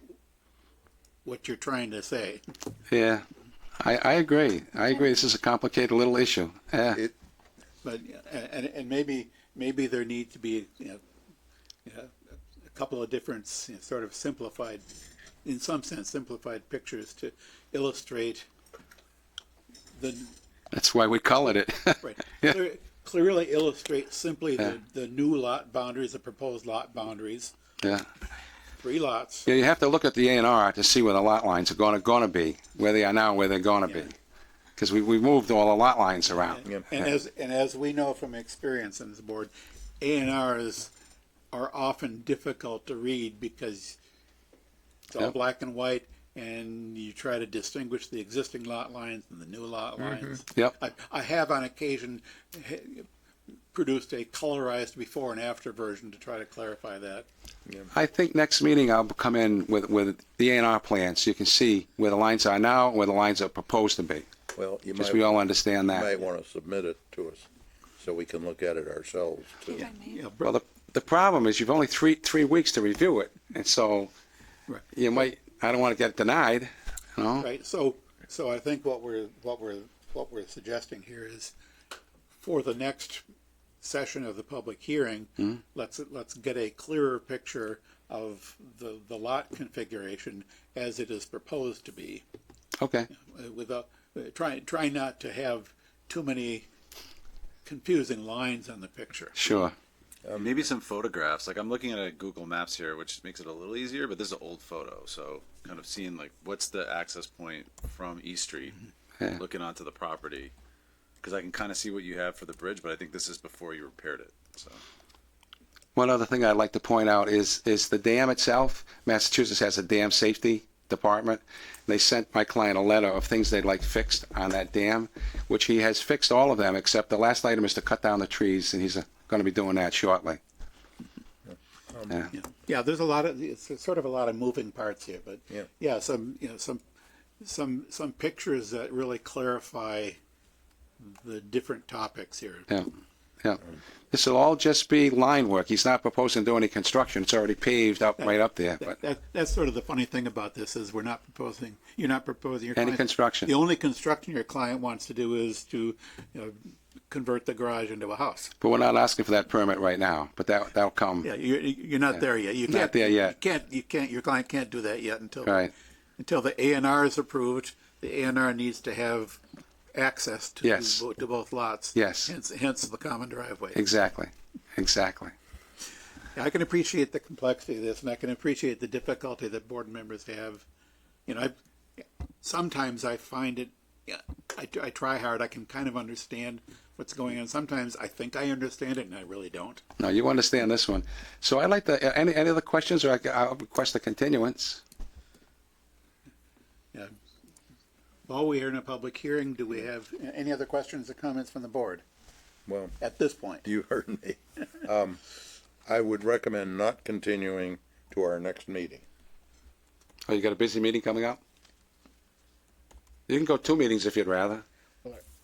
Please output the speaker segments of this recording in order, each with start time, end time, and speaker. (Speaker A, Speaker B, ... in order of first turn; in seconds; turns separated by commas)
Speaker A: 1.2-2.4, Speaker B: 2.9-3.2, Speaker B: 3.8-7.0, Speaker A: 7.8-11.0, Speaker A: 11.8-12.1, Speaker A: 12.7-14.8, Speaker A: 15.4-18.5, Speaker A: 19.9-20.3, Speaker B: 20.7-22.6, Speaker A: 22.0-27.5, Speaker B: 27.8-28.1, Speaker A: 28.8-29.5, Speaker B: 29.5-34.1, Speaker A: 33.9-34.1, Speaker B: 34.8-36.6, Speaker A: 36.5-40.9, Speaker A: 41.5-44.0, Speaker A: 45.1-53.1, Speaker A: 53.7-57.3, Speaker B: 57.9-64.2, Speaker C: 64.5-67.5, Speaker B: 65.0-66.1, Speaker C: 68.0-69.9, Speaker A: 69.7-70.5, Speaker B: 70.4-74.1, Speaker B: 74.9-77.5, Speaker A: 77.4-81.5, Speaker A: 82.4-83.2, Speaker A: 83.8-92.2, Speaker B: 92.8-93.1, Speaker A: 93.1-96.7, Speaker A: 97.6-99.4, Speaker B: 99.3-99.7, Speaker C: 100.2-100.6, Speaker D: 100.3-108.8, Speaker D: 109.3-110.5, Speaker D: 111.2-114.8, Speaker B: 116.0-130.4, Speaker C: 131.5-132.1, Speaker A: 132.3-136.8, Speaker A: 137.4-140.2, Speaker A: 141.0-142.7, Speaker B: 143.4-149.0, Speaker A: 148.2-158.5, Speaker B: 152.8-153.5, Speaker B: 158.6-161.3, Speaker A: 161.2-165.6, Speaker B: 162.1-163.3, Speaker B: 165.4-165.7, Speaker A: 166.2-169.4, Speaker A: 169.9-173.8, Speaker B: 170.6-171.0, Speaker B: 171.9-172.3, Speaker B: 173.7-175.3, Speaker A: 176.3-180.7, Speaker A: 181.3-181.5, Speaker A: 182.4-189.8, Speaker B: 190.0-194.8, Speaker A: 198.3-202.0, Speaker C: 202.7-203.0, Speaker A: 203.0-203.6, Speaker C: 203.6-209.1, Speaker B: 210.3-211.4, Speaker B: 213.3-214.6